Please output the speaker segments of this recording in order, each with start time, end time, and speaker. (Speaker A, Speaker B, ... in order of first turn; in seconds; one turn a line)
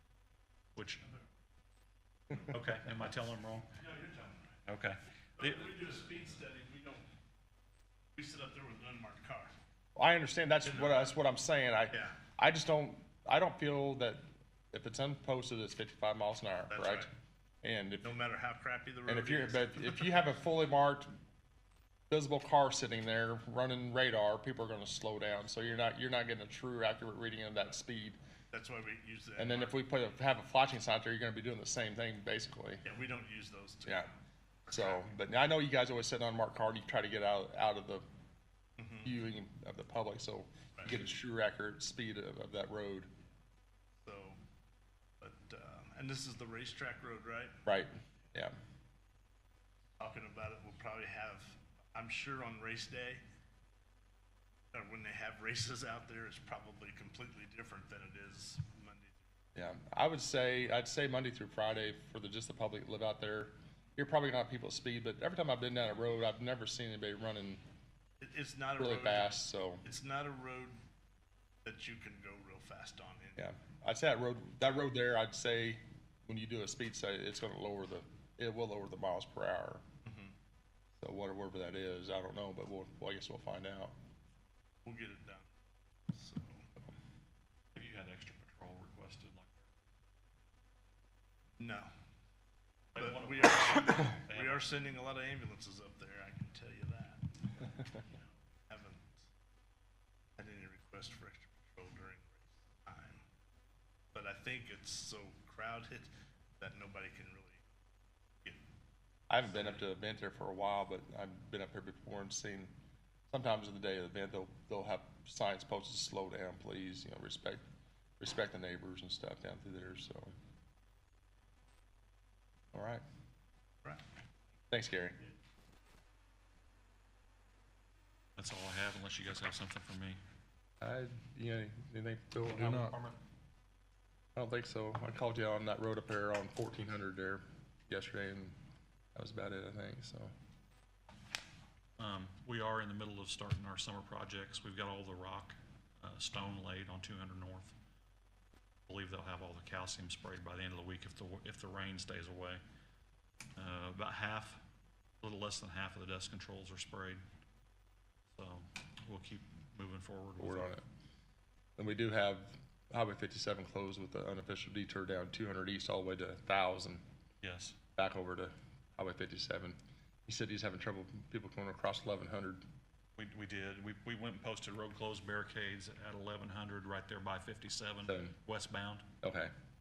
Speaker A: 0.8-1.0
Speaker A: 2.4-3.7
Speaker B: 3.8-4.5
Speaker A: 4.7-5.7
Speaker B: 5.4-7.0
Speaker B: 8.2-9.5
Speaker C: 9.9-17.1
Speaker B: 10.6-11.1
Speaker B: 16.7-17.1
Speaker C: 17.6-18.1
Speaker B: 18.0-20.2
Speaker C: 19.1-21.1
Speaker C: 22.1-28.2
Speaker B: 28.5-29.7
Speaker C: 29.4-32.8
Speaker B: 32.8-34.1
Speaker C: 33.9-34.1
Speaker B: 34.7-35.0
Speaker C: 34.7-38.0
Speaker B: 38.8-39.1
Speaker C: 39.0-43.1
Speaker B: 44.0-44.4
Speaker B: 45.2-47.6
Speaker C: 47.6-48.6
Speaker B: 50.0-53.2
Speaker B: 54.7-59.2
Speaker C: 59.5-67.6
Speaker B: 68.2-70.8
Speaker C: 68.8-69.8
Speaker B: 71.6-73.4
Speaker C: 73.4-79.8
Speaker B: 80.0-80.3
Speaker C: 81.0-83.9
Speaker B: 84.8-85.5
Speaker B: 86.1-86.6
Speaker A: 87.7-89.7
Speaker B: 91.6-91.9
Speaker A: 92.9-94.8
Speaker B: 93.0-99.2
Speaker B: 100.4-103.2
Speaker B: 104.1-106.1
Speaker B: 106.6-107.7
Speaker C: 109.3-112.7
Speaker C: 113.3-117.6
Speaker C: 118.2-120.3
Speaker C: 122.7-123.0
Speaker C: 124.7-125.2
Speaker A: 128.4-130.2
Speaker C: 130.8-133.0
Speaker A: 132.7-133.0
Speaker C: 134.3-138.6
Speaker C: 139.1-140.3
Speaker A: 142.0-147.7
Speaker A: 148.9-152.6
Speaker A: 153.6-154.6
Speaker A: 155.2-157.2
Speaker A: 158.3-160.7
Speaker C: 160.4-160.8
Speaker C: 161.8-167.0
Speaker A: 167.4-167.8
Speaker C: 167.9-172.6
Speaker A: 173.2-179.1
Speaker C: 178.1-178.3
Speaker C: 179.2-179.5